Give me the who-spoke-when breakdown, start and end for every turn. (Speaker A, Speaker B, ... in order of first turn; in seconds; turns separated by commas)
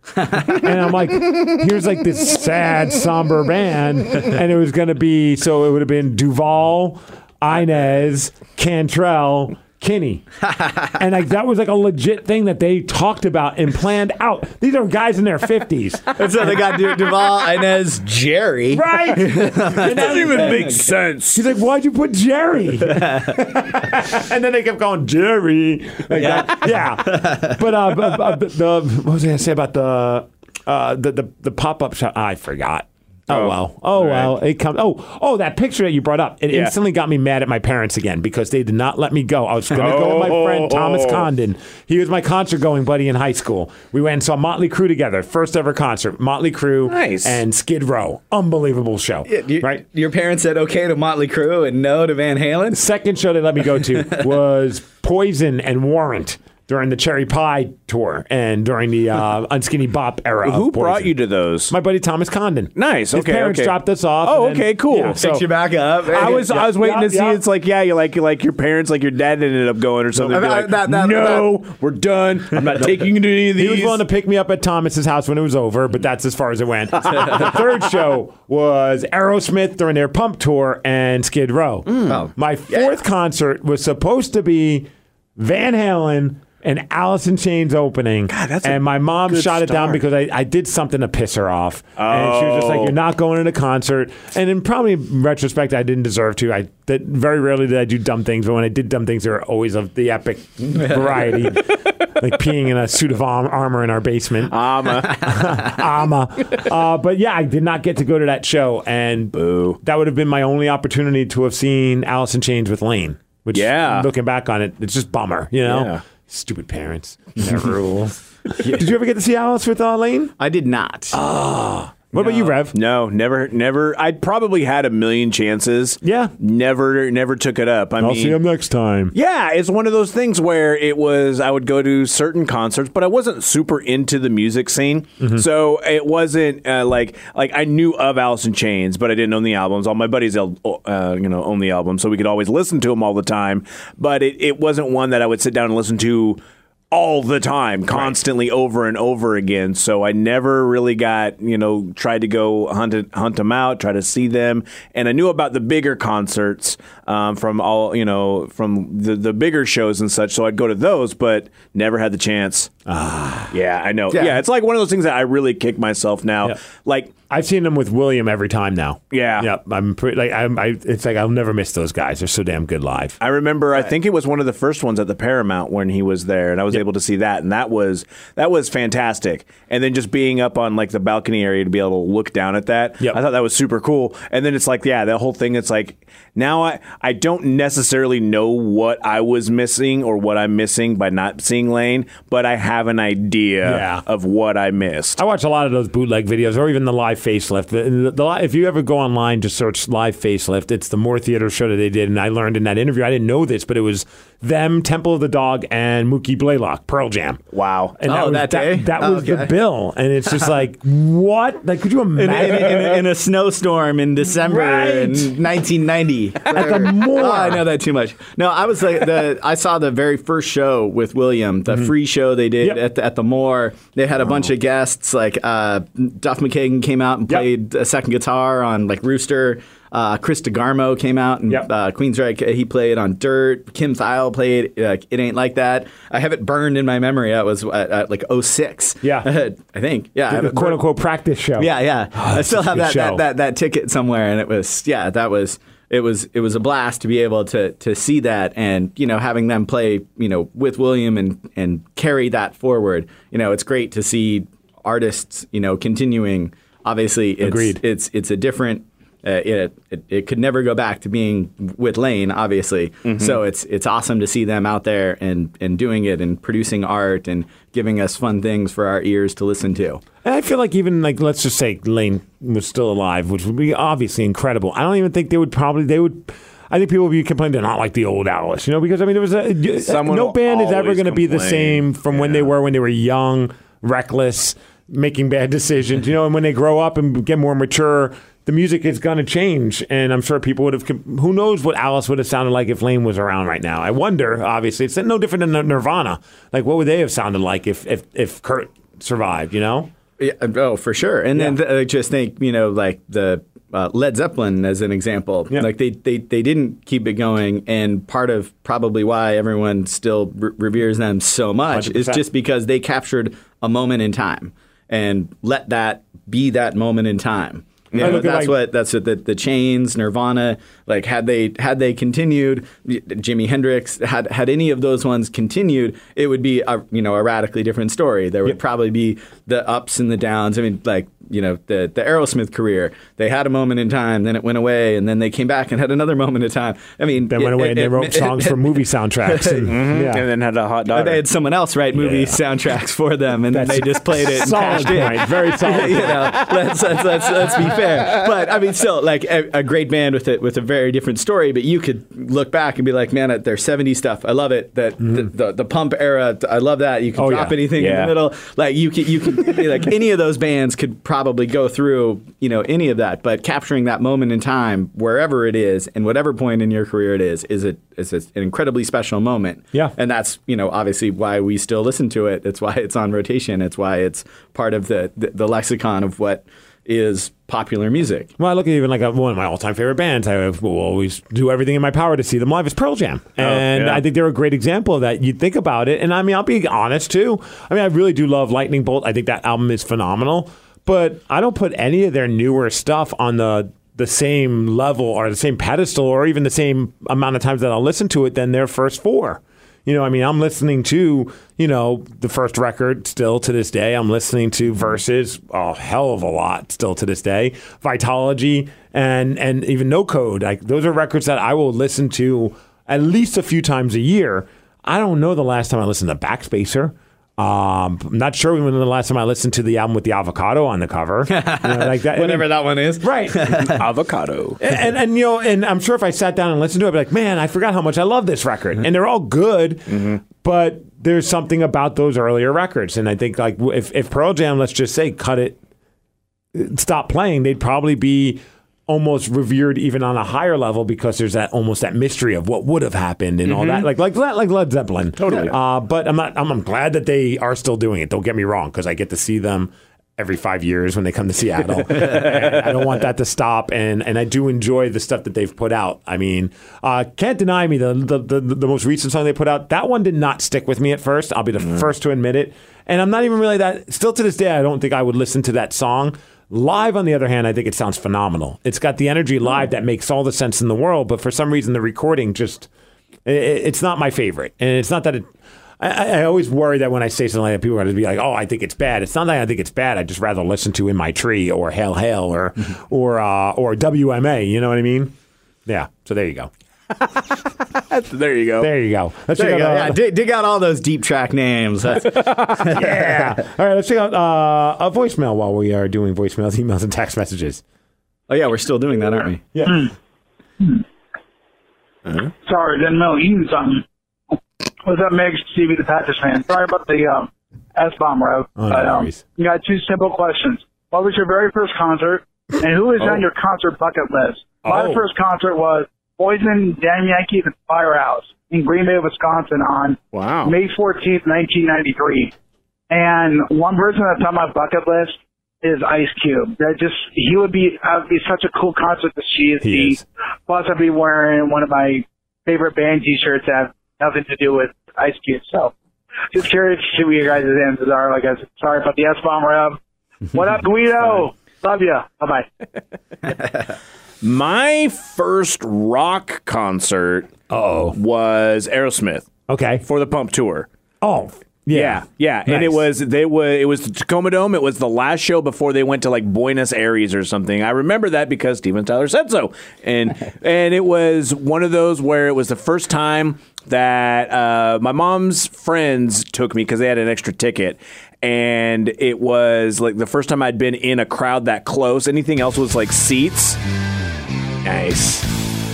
Speaker A: 0.5-10.2, Speaker B: 10.6-10.9, Speaker A: 10.9-16.2, Speaker B: 16.1-20.8, Speaker A: 18.7-20.8, Speaker C: 19.8-21.4, Speaker A: 21.3-49.8, Speaker B: 22.9-23.3, Speaker B: 26.1-27.6, Speaker C: 33.3-34.4, Speaker C: 39.7-41.2, Speaker C: 46.9-47.4, Speaker B: 49.3-52.8, Speaker A: 52.7-61.1, Speaker C: 60.4-61.7, Speaker A: 61.7-65.5, Speaker C: 62.8-65.2, Speaker B: 65.2-66.5, Speaker A: 66.1-67.4, Speaker C: 66.1-74.0, Speaker B: 70.2-71.6, Speaker A: 73.5-104.6, Speaker B: 77.1-77.5, Speaker C: 81.9-82.2, Speaker B: 82.1-83.0, Speaker C: 88.3-90.0, Speaker C: 92.0-92.9, Speaker C: 104.5-105.5, Speaker A: 105.1-120.3, Speaker C: 109.3-109.8, Speaker C: 113.5-114.1, Speaker C: 115.7-116.0, Speaker B: 120.4-121.2, Speaker A: 121.1-122.8, Speaker C: 122.2-128.3, Speaker A: 126.0-126.3, Speaker A: 128.0-129.1, Speaker C: 129.1-146.4, Speaker C: 146.9-162.7, Speaker A: 162.8-163.5, Speaker C: 163.5-167.1, Speaker B: 164.1-164.4, Speaker A: 167.3-173.2, Speaker C: 169.1-169.5, Speaker C: 173.2-195.2, Speaker A: 193.6-194.0, Speaker A: 195.2-207.4, Speaker C: 207.5-207.9, Speaker A: 208.0-213.0, Speaker B: 208.0-209.5, Speaker B: 212.2-240.8, Speaker A: 214.4-215.3, Speaker A: 216.5-217.6, Speaker A: 239.0-239.3, Speaker A: 240.3-243.2, Speaker B: 241.6-270.0, Speaker A: 257.4-257.8, Speaker C: 263.0-263.4, Speaker A: 270.2-299.9, Speaker C: 279.8-282.4, Speaker B: 300.2-340.0, Speaker A: 311.7-312.2, Speaker A: 317.9-318.6, Speaker A: 337.3-340.2, Speaker C: 339.7-341.2, Speaker B: 340.9-378.3, Speaker A: 341.9-342.4, Speaker A: 343.5-346.5, Speaker C: 344.4-344.9, Speaker C: 346.0-348.2, Speaker A: 355.0-355.3, Speaker A: 357.1-357.6, Speaker C: 357.8-358.1, Speaker A: 378.4-423.6, Speaker C: 383.4-384.0, Speaker B: 421.3-423.8, Speaker C: 423.8-424.6, Speaker A: 424.6-435.6, Speaker C: 429.9-430.2, Speaker A: 436.5-472.7, Speaker C: 443.5-443.9, Speaker C: 445.2-445.5, Speaker A: 473.2-485.1, Speaker A: 485.6-486.5, Speaker C: 487.9-488.7, Speaker A: 488.6-490.0, Speaker B: 489.4-493.3, Speaker C: 492.1-492.6, Speaker A: 492.7-497.6, Speaker B: 498.3-499.5, Speaker A: 499.5-499.9, Speaker C: 502.1-502.3, Speaker D: 502.4-503.8, Speaker D: 504.8-522.3, Speaker A: 508.6-509.2, Speaker A: 514.6-515.0, Speaker C: 520.1-520.5, Speaker D: 522.9-535.7, Speaker A: 529.6-530.0, Speaker D: 536.3-539.8, Speaker D: 540.3-542.5, Speaker C: 544.2-547.3, Speaker A: 547.5-548.0, Speaker C: 547.9-549.3, Speaker A: 549.5-549.8, Speaker C: 549.8-550.7, Speaker A: 551.0-552.8, Speaker C: 551.7-573.6, Speaker C: 574.6-575.3